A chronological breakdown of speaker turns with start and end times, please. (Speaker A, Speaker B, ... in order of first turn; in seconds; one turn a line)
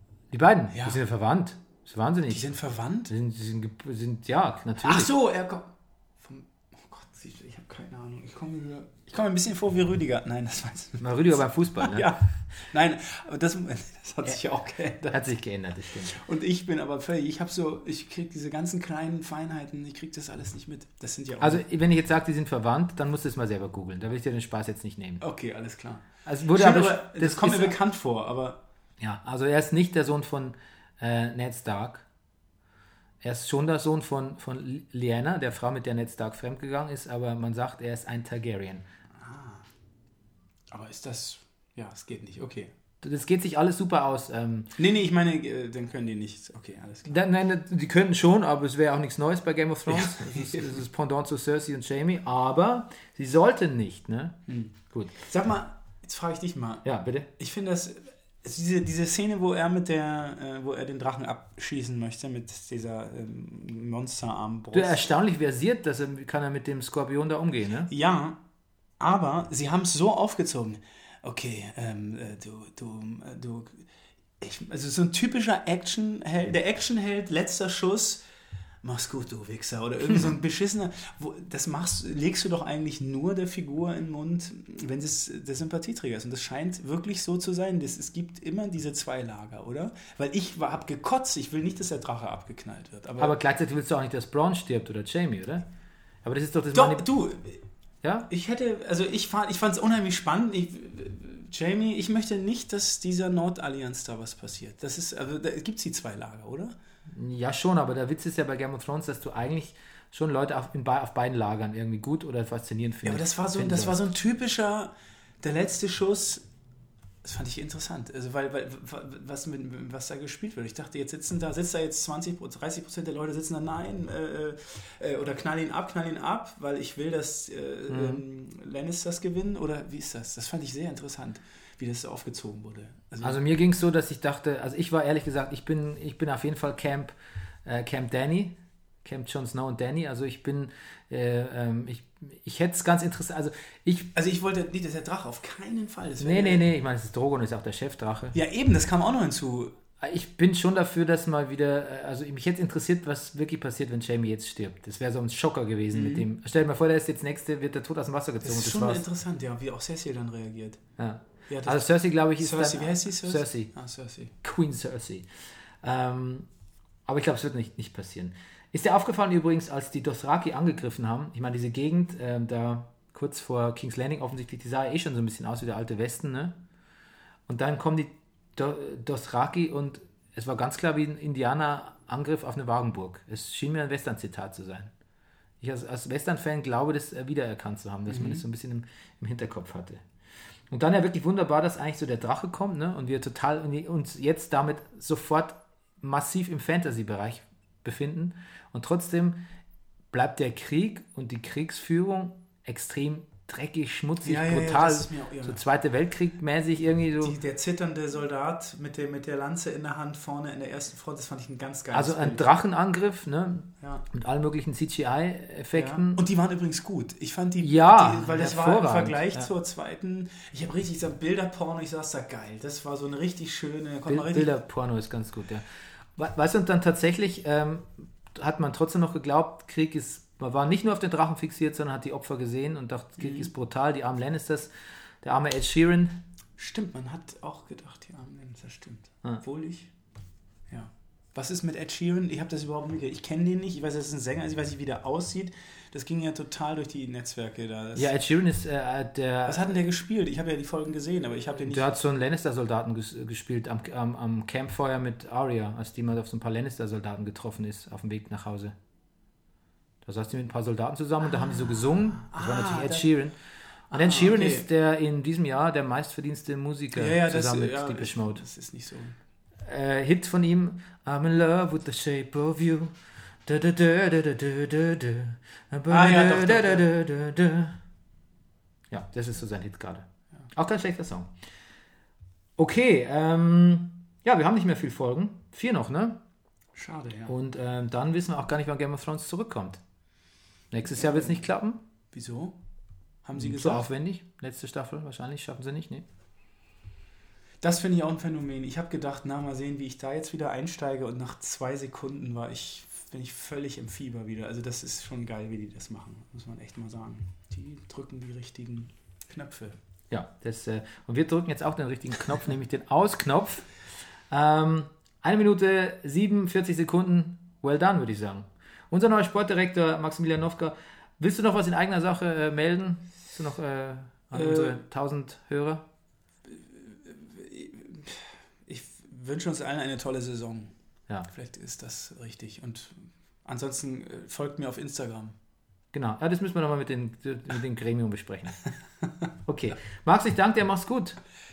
Speaker A: 0.3-2.5
Speaker B: 0.7-1.0
Speaker B: 2.3-3.1
Speaker A: 3.1-5.1
Speaker B: 4.8-15.3
Speaker A: 11.0-12.1
Speaker A: 15.1-16.2
Speaker B: 16.1-21.6
Speaker A: 21.4-25.2
Speaker B: 25.2-28.6
Speaker A: 26.3-27.8
Speaker A: 29.0-32.1
Speaker A: 33.2-38.9
Speaker B: 39.1-39.7
Speaker B: 40.7-42.7
Speaker A: 43.0-44.7
Speaker B: 44.8-47.2
Speaker A: 47.1-54.4
Speaker B: 49.9-50.8
Speaker B: 54.5-56.9
Speaker A: 56.8-57.3
Speaker B: 57.4-65.0
Speaker A: 64.7-67.9
Speaker B: 67.9-68.4
Speaker B: 69.0-73.9
Speaker B: 74.4-78.2
Speaker B: 78.8-93.4
Speaker A: 93.2-95.7
Speaker A: 96.2-97.0
Speaker B: 96.7-97.6
Speaker A: 98.0-98.3
Speaker B: 98.3-106.7
Speaker A: 107.1-114.0
Speaker B: 113.0-116.5
Speaker B: 117.2-133.4
Speaker A: 127.9-128.2
Speaker A: 133.2-137.1
Speaker A: 137.7-144.1
Speaker B: 144.1-146.7
Speaker A: 146.2-148.4
Speaker B: 148.3-149.8
Speaker A: 150.0-159.1
Speaker B: 155.9-156.3
Speaker B: 158.4-160.8
Speaker A: 161.0-163.7
Speaker B: 161.5-164.3
Speaker A: 164.4-165.3
Speaker A: 165.8-166.5
Speaker A: 167.1-176.6
Speaker A: 177.5-184.9
Speaker A: 185.6-190.0
Speaker B: 188.1-188.4
Speaker A: 190.7-199.4
Speaker A: 200.1-207.4
Speaker B: 204.2-205.6
Speaker B: 207.2-212.5
Speaker A: 211.9-216.3
Speaker B: 213.8-214.1
Speaker B: 215.7-224.5
Speaker A: 217.6-219.5
Speaker A: 224.1-225.7
Speaker A: 226.2-236.2
Speaker B: 233.2-233.5
Speaker B: 236.6-239.9
Speaker B: 240.7-248.1
Speaker A: 247.9-249.7
Speaker B: 249.5-252.0
Speaker A: 251.6-258.8
Speaker A: 260.0-263.4
Speaker B: 261.3-263.1
Speaker A: 263.9-268.4
Speaker B: 263.9-264.7
Speaker B: 266.9-269.2
Speaker A: 269.6-272.9
Speaker A: 273.5-277.8
Speaker B: 275.9-276.9
Speaker A: 278.9-281.3
Speaker A: 282.6-286.2
Speaker B: 286.8-287.3
Speaker A: 287.3-289.8
Speaker A: 290.7-291.8
Speaker B: 290.9-291.4
Speaker B: 292.1-292.6
Speaker B: 293.2-293.9
Speaker A: 293.4-296.1
Speaker B: 297.6-309.8
Speaker A: 310.1-313.7
Speaker A: 314.3-325.8
Speaker B: 324.3-324.8
Speaker B: 326.5-330.7
Speaker B: 331.3-335.4
Speaker A: 335.9-338.6
Speaker A: 339.5-341.2